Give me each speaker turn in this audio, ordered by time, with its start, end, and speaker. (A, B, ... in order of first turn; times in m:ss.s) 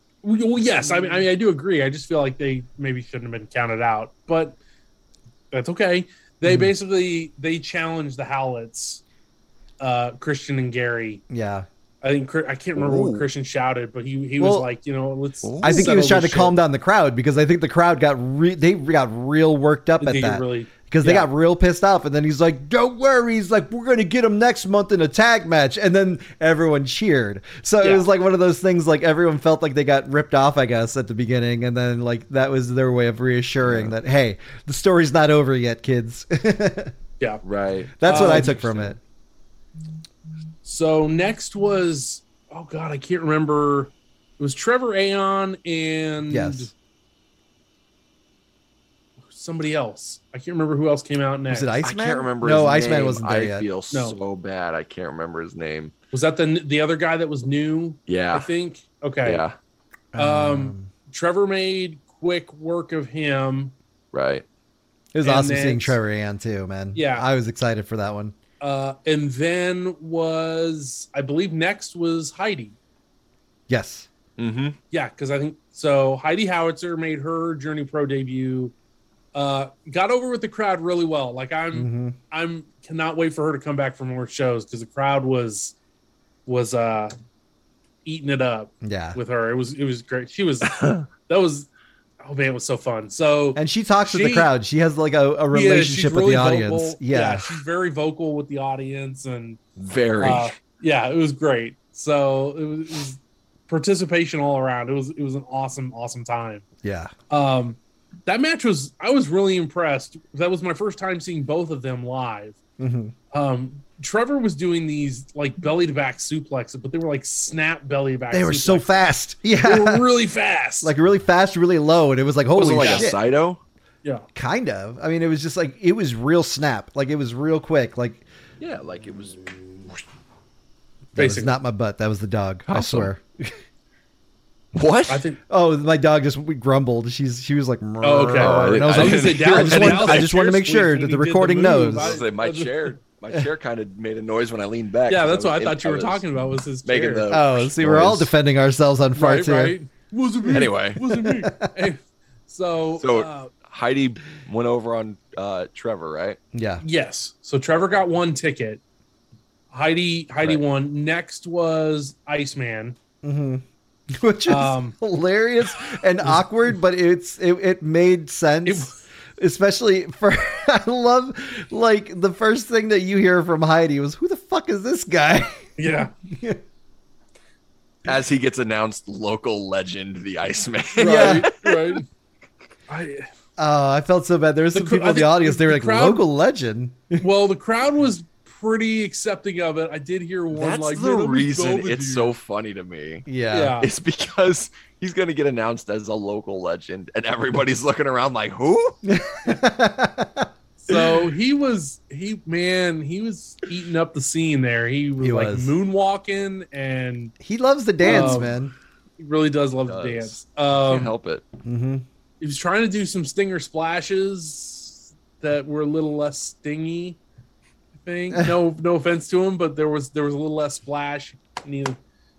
0:00.2-0:04.6 A
0:05.5-0:09.0 A
0:06.4-0:06.7 B
0:09.8-0:11.2 A
0:11.3-0:11.6 B
0:12.0-0:16.6 A
0:12.8-0:13.2 C
0:14.4-0:14.7 B
0:15.4-0:15.9 C
0:15.6-0:36.9 B
0:20.0-0:21.3 A
0:27.8-0:28.0 A
0:33.6-0:33.9 C
0:37.4-0:38.9 C
0:38.0-0:39.0 B
0:38.0-0:38.9 A
0:40.6-0:46.7 A
0:46.3-0:46.7 B
0:49.3-0:51.7 A
0:51.5-0:53.6 B
0:51.8-0:55.9 C
0:53.9-0:54.2 A
0:56.1-0:59.4 A
0:58.1-0:58.5 C
0:59.2-0:59.5 C
1:00.1-1:00.9 B
1:00.2-1:03.7 A
1:04.1-1:04.4 C
1:05.1-1:08.4 B
1:05.2-1:06.0 A
1:06.9-1:07.3 A
1:08.6-1:12.8 A
1:13.7-1:14.1 B
1:14.4-1:14.8 C
1:14.9-1:18.7 A
1:19.3-1:25.8 A
1:21.7-1:22.2 B
1:26.4-1:27.1 A
1:28.0-1:31.7 A
1:28.8-1:29.2 B
1:30.7-1:31.0 C
1:32.2-1:34.5 A
1:33.6-1:37.5 B
1:35.5-1:39.6 A
1:39.8-1:40.5 C
1:40.2-1:46.6 A
1:46.8-1:47.1 B
1:47.3-1:52.6 A
1:52.8-1:53.1 B
1:53.3-1:58.9 A
1:58.3-2:00.0 B
1:59.6-2:00.9 A
2:00.8-2:03.2 B
2:02.6-2:03.6 C
2:02.8-2:03.1 A
2:04.3-2:08.2 B
2:08.6-2:10.0 C
2:11.1-2:13.6 B
2:11.2-2:11.5 A
2:12.7-2:13.1 C
2:14.7-2:15.2 C
2:15.1-2:15.4 A
2:15.5-2:22.2 B
2:18.0-2:23.0 A
2:18.4-2:20.3 C
2:21.9-2:26.3 C
2:25.1-2:27.3 A
2:26.8-2:28.3 C
2:27.3-2:29.8 B
2:29.1-2:33.5 A
2:30.5-2:31.0 C
2:30.5-2:31.7 B
2:33.0-2:36.4 C
2:36.5-2:36.8 B
2:36.8-2:38.8 A
2:39.7-2:43.0 A
2:43.2-2:56.6 B
2:44.5-2:44.9 A
2:48.6-2:49.0 A
2:55.8-2:56.1 A
2:58.0-3:01.8 C
3:01.0-3:02.0 A
3:01.0-3:01.5 B
3:02.9-3:03.3 A
3:03.6-3:07.2 B
3:04.7-3:06.2 A
3:07.2-3:12.3 A
3:10.5-3:13.2 C
3:13.2-3:13.8 B
3:13.5-3:13.9 A
3:13.8-3:19.0 C
3:19.0-3:21.2 B
3:20.8-3:27.3 A
3:25.2-3:25.7 B
3:27.4-3:28.7 B
3:28.0-3:28.6 A
3:29.2-3:31.1 A
3:29.9-3:31.4 C
3:31.6-3:32.0 B
3:32.4-3:37.2 A
3:38.0-3:42.0 A